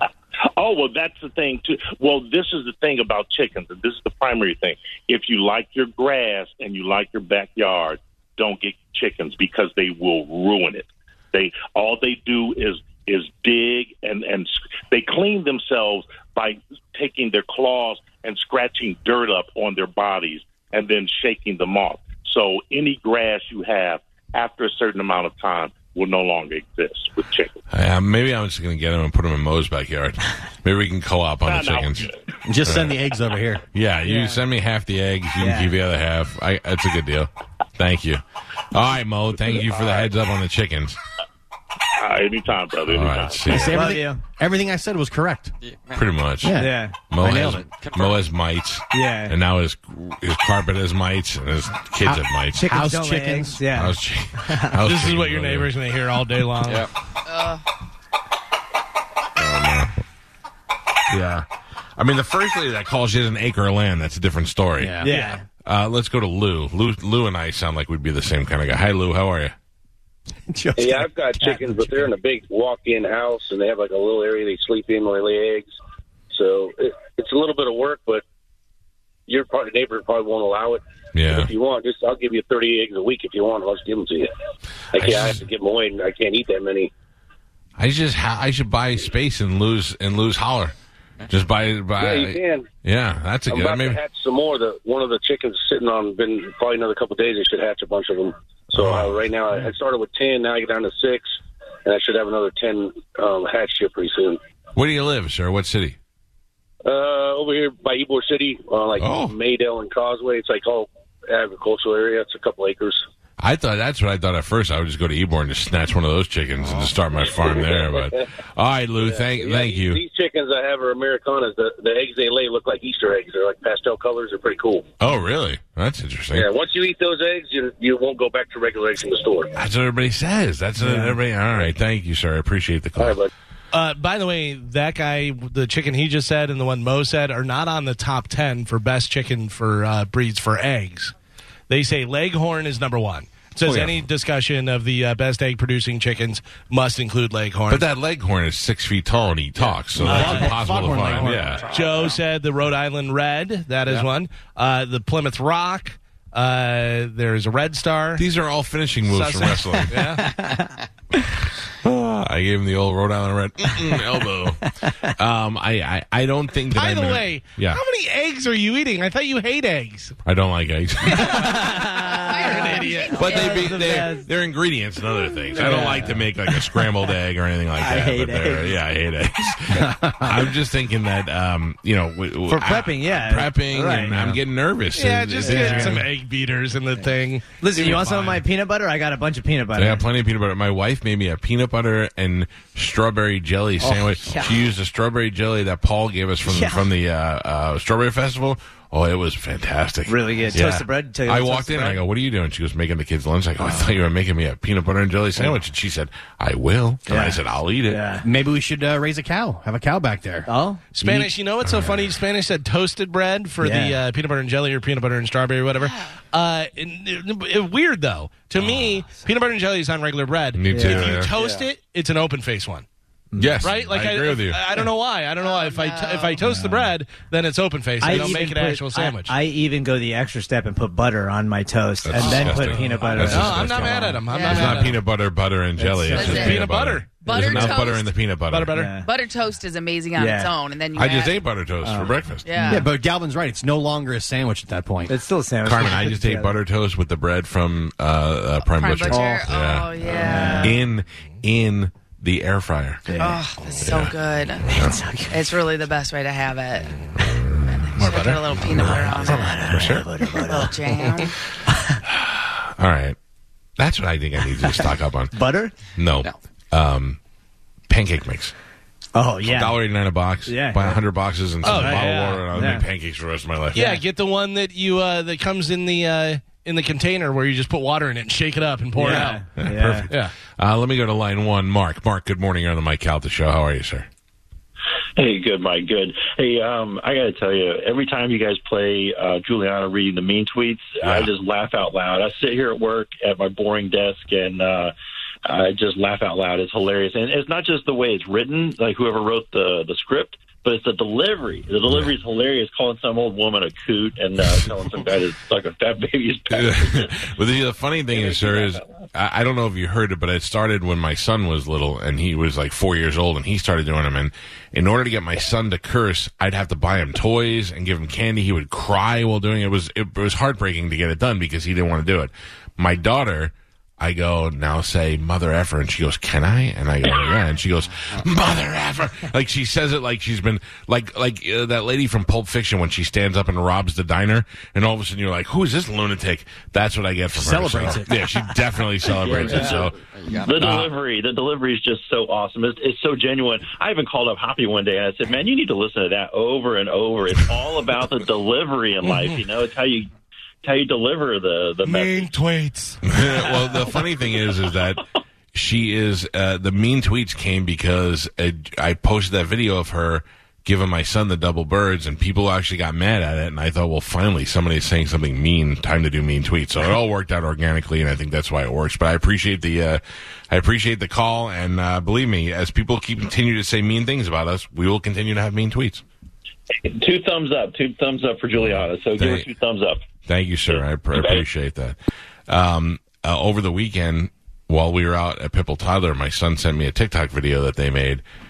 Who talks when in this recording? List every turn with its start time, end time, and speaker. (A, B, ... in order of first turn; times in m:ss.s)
0:00.6-0:27.6 A
0:27.7-0:32.1 B
0:31.4-0:32.3 A
0:32.4-0:33.6 C
0:32.6-0:33.0 B
0:33.7-0:41.0 B
0:34.0-0:34.4 D
0:35.4-0:35.7 D
0:39.7-0:40.0 A
0:41.9-0:43.5 A
0:42.9-0:43.9 B
0:43.5-0:45.5 C
0:43.6-0:44.2 D
0:45.6-0:46.1 E
0:45.9-0:52.7 B
0:46.4-0:47.6 C
0:46.6-0:47.5 D
0:47.6-0:48.3 E
0:48.9-0:49.3 D
0:52.0-0:53.6 C
0:52.5-0:54.8 D
0:53.7-0:55.7 B
0:54.8-0:56.9 F
0:56.6-0:56.9 E
0:57.3-0:57.6 G
0:59.4-1:00.0 B
1:01.1-1:01.4 B
1:02.0-1:05.0 B
1:04.8-1:05.1 C
1:05.0-1:05.4 D
1:05.1-1:05.3 F
1:05.6-1:09.5 B
1:10.5-1:12.1 C
1:10.8-1:15.7 H
1:16.3-1:18.2 H
1:19.3-1:24.3 H
1:21.1-1:21.5 B
1:24.9-1:26.9 H
1:25.0-1:25.4 B
1:27.8-1:30.7 B
1:31.3-1:34.0 B
1:32.0-1:32.7 H
1:33.5-1:44.4 H
1:38.8-1:39.2 B
1:44.7-1:46.0 B
1:46.8-1:53.0 H
1:49.0-1:49.4 B
1:53.4-2:00.0 B
1:57.2-1:58.2 H
1:59.0-2:04.9 H
2:05.0-2:06.5 B
2:06.3-2:09.5 H
2:09.6-2:13.2 B
2:10.8-2:11.1 D
2:13.0-2:13.3 H
2:13.7-2:21.1 F
2:21.7-2:27.9 F
2:23.6-2:23.9 B
2:27.7-2:31.8 B
2:30.0-2:31.6 C
2:30.0-2:38.2 F
2:38.2-2:40.1 B
2:39.0-2:40.3 F
2:39.9-2:40.7 D
2:41.7-2:47.8 B
2:44.7-2:45.1 D
2:46.7-2:50.2 F
2:50.2-2:51.8 B
2:51.1-2:54.3 D
2:52.1-2:54.0 G
2:52.4-2:53.4 F
2:53.1-3:06.1 B
2:55.5-2:56.8 D
2:57.8-2:58.8 D
2:59.8-3:00.4 D
3:02.5-3:04.4 D
3:04.9-3:08.4 F
3:05.4-3:06.0 D
3:07.6-3:10.0 D
3:09.8-3:28.1 B
3:13.8-3:14.6 D
3:16.4-3:16.9 D
3:20.1-3:22.0 D
3:23.6-3:23.9 D
3:27.1-3:28.2 D
3:28.2-3:30.5 C
3:30.4-3:31.3 D
3:30.9-3:42.8 F
3:31.6-3:32.1 B
3:33.6-3:34.0 D
3:35.8-3:36.1 G
3:38.6-3:39.0 B
3:40.5-3:41.3 B
3:40.7-3:41.6 D
3:43.3-3:43.6 D
3:43.4-3:44.6 B
3:43.6-3:49.3 F
3:45.4-3:46.4 G
3:46.5-3:46.9 D
3:48.0-3:54.8 D
3:52.0-3:58.8 B
3:52.4-3:55.0 F
3:54.3-3:54.8 G
3:55.8-3:56.6 D
3:56.1-3:56.7 G
3:56.1-3:57.5 F
3:57.2-3:58.1 G
3:57.3-3:57.7 D
3:58.5-3:58.9 F
3:58.7-3:59.1 D
3:58.9-4:01.4 G
4:00.2-4:00.5 D
4:00.9-4:02.6 B
4:01.8-4:02.8 D
4:02.4-4:02.9 G
4:02.6-4:05.1 C
4:05.1-4:06.5 D
4:05.6-4:13.1 B
4:08.6-4:10.8 G
4:09.1-4:09.4 D
4:10.1-4:10.8 D
4:13.1-4:13.4 D
4:13.2-4:14.6 G
4:13.8-4:15.0 B
4:14.7-4:15.4 D
4:15.3-4:16.9 G
4:17.1-4:20.1 B
4:18.0-4:19.6 G
4:18.7-4:22.0 D
4:20.4-4:21.3 G
4:22.0-4:23.2 B
4:23.8-4:25.3 B
4:24.8-4:25.7 D
4:26.0-4:27.2 B
4:27.9-4:28.5 B
4:29.1-4:29.8 D
4:29.4-4:33.9 B
4:30.4-4:31.0 D
4:31.6-4:32.4 F
4:31.6-4:32.8 D
4:33.7-4:39.4 F
4:33.7-4:34.0 D
4:39.0-4:40.1 D
4:39.1-4:44.1 B
4:45.2-4:54.9 I
4:51.0-4:51.3 B
4:55.4-5:07.2 I
5:01.9-5:02.1 B
5:06.5-5:40.0 B
5:08.1-5:08.8 I
5:37.4-5:38.3 C
5:39.2-5:50.1 I
5:39.3-5:40.7 E
5:40.6-5:40.9 B
5:49.0-5:49.4 F
5:50.6-5:52.4 I
5:51.8-5:53.0 F
5:53.0-5:55.0 B
5:55.5-6:16.0 B
6:16.8-6:20.0 I
6:18.6-6:19.5 B
6:20.2-6:22.0 B
6:20.7-6:21.4 I
6:22.5-6:28.2 B